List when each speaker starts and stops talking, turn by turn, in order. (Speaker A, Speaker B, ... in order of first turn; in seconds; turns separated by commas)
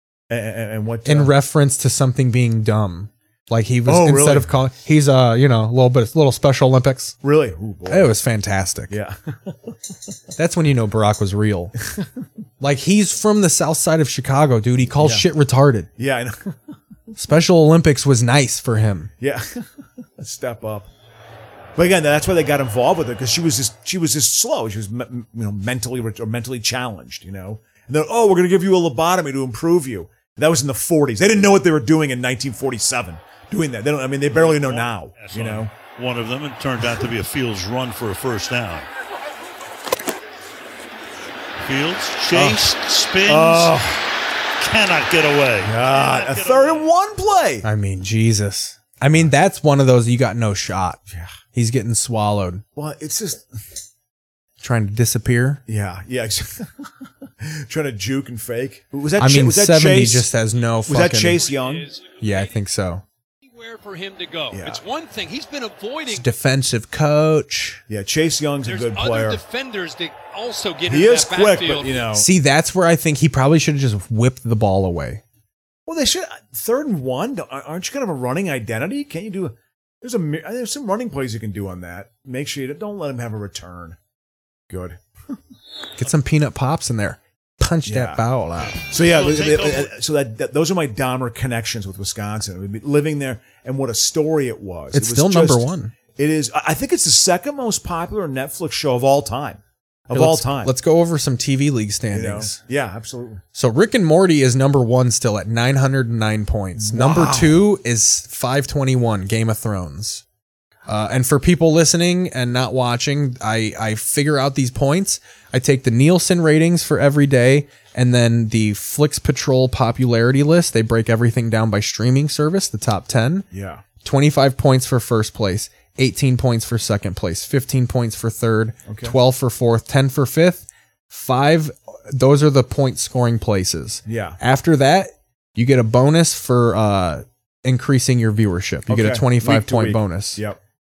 Speaker A: 0.3-1.4, Speaker B: 1.1-7.2, Speaker A: 3.9-4.5, Speaker A: 7.2-8.2, Speaker B: 7.9-8.9, Speaker A: 8.9-9.9, Speaker B: 10.4-11.8, Speaker B: 12.6-15.9, Speaker A: 14.9-15.3, Speaker A: 16.0-16.6, Speaker B: 17.2-19.1, Speaker A: 19.2-20.9, Speaker A: 21.8-35.7, Speaker C: 34.4-38.9, Speaker C: 41.6-43.8, Speaker A: 42.3-42.7, Speaker A: 43.2-44.1, Speaker C: 44.6-46.9, Speaker A: 45.6-47.7, Speaker B: 47.6-51.0, Speaker B: 51.5-52.6, Speaker A: 52.8-53.5, Speaker B: 54.6-55.6, Speaker A: 55.7-60.3, Speaker B: 59.2-61.4, Speaker A: 60.9-61.9, Speaker D: 61.4-62.6, Speaker B: 62.2-63.0, Speaker D: 63.5-66.3, Speaker A: 64.5-64.8, Speaker B: 66.1-67.8, Speaker A: 67.9-69.4, Speaker D: 68.7-72.1, Speaker A: 70.9-72.3, Speaker B: 72.1-75.2, Speaker A: 75.9-84.0, Speaker A: 84.7-85.4, Speaker B: 86.0-88.8, Speaker A: 87.9-100.7, Speaker C: 88.9-89.9, Speaker B: 94.9-95.9, Speaker B: 100.1-102.6, Speaker A: 102.1-103.4, Speaker B: 103.5-110.2, Speaker A: 106.8-107.6, Speaker B: 110.9-123.5, Speaker A: 123.5-123.8, Speaker B: 124.0-140.4, Speaker A: 128.9-129.2, Speaker A: 134.1-134.4, Speaker A: 138.9-140.6